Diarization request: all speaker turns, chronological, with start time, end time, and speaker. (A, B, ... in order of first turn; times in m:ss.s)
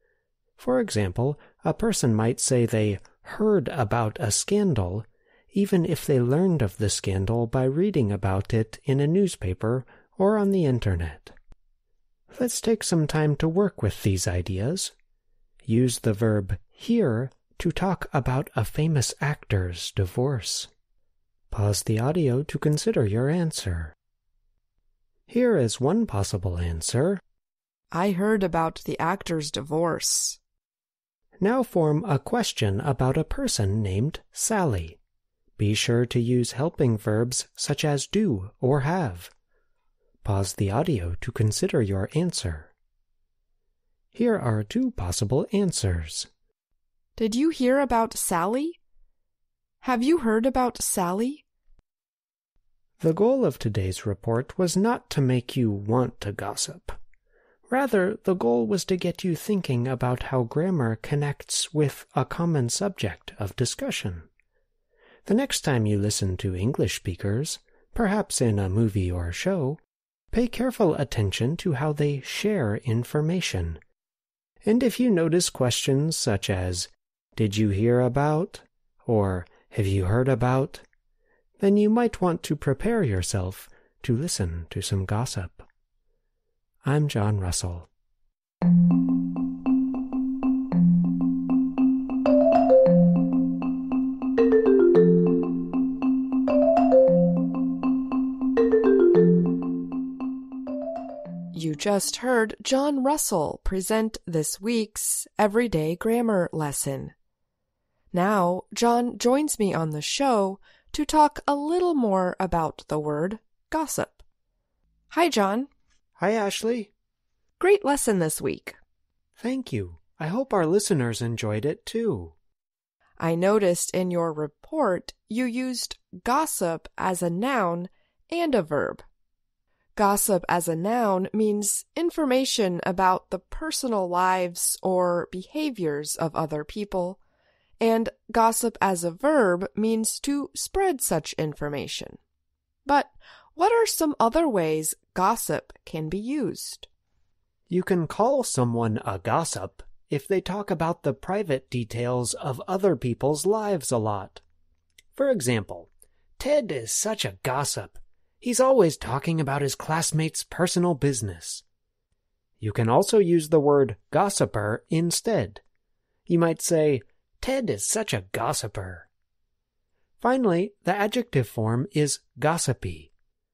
0:00.6-0:11.4 A
0:12.3-0:14.9 A
0:15.6-0:20.7 A
0:21.5-0:23.9 A
0:25.3-0:27.2 A
0:27.9-0:30.4 B
0:31.4-0:35.0 A
0:35.6-0:39.3 A
0:40.2-0:42.7 A
0:44.1-0:46.3 A
0:47.2-0:48.8 B
0:49.8-0:51.4 B
0:53.0-0:57.0 A
0:57.7-1:04.3 A
1:05.2-1:09.8 A
1:10.3-1:13.8 A
1:14.6-1:20.8 A
1:21.6-1:25.7 A
1:26.8-1:27.9 A
1:41.5-1:47.1 B
1:48.1-1:54.2 B
1:55.1-1:55.7 B
1:56.2-1:56.9 A
1:57.6-1:58.8 B
1:59.4-2:02.3 A
2:03.2-2:09.0 B
2:10.0-2:17.2 B
2:17.8-2:22.2 B
2:22.8-2:26.9 B
2:27.7-2:34.4 A
2:35.1-2:41.6 A
2:42.6-2:45.6 A
2:46.3-2:49.1 A
2:50.2-2:53.1 A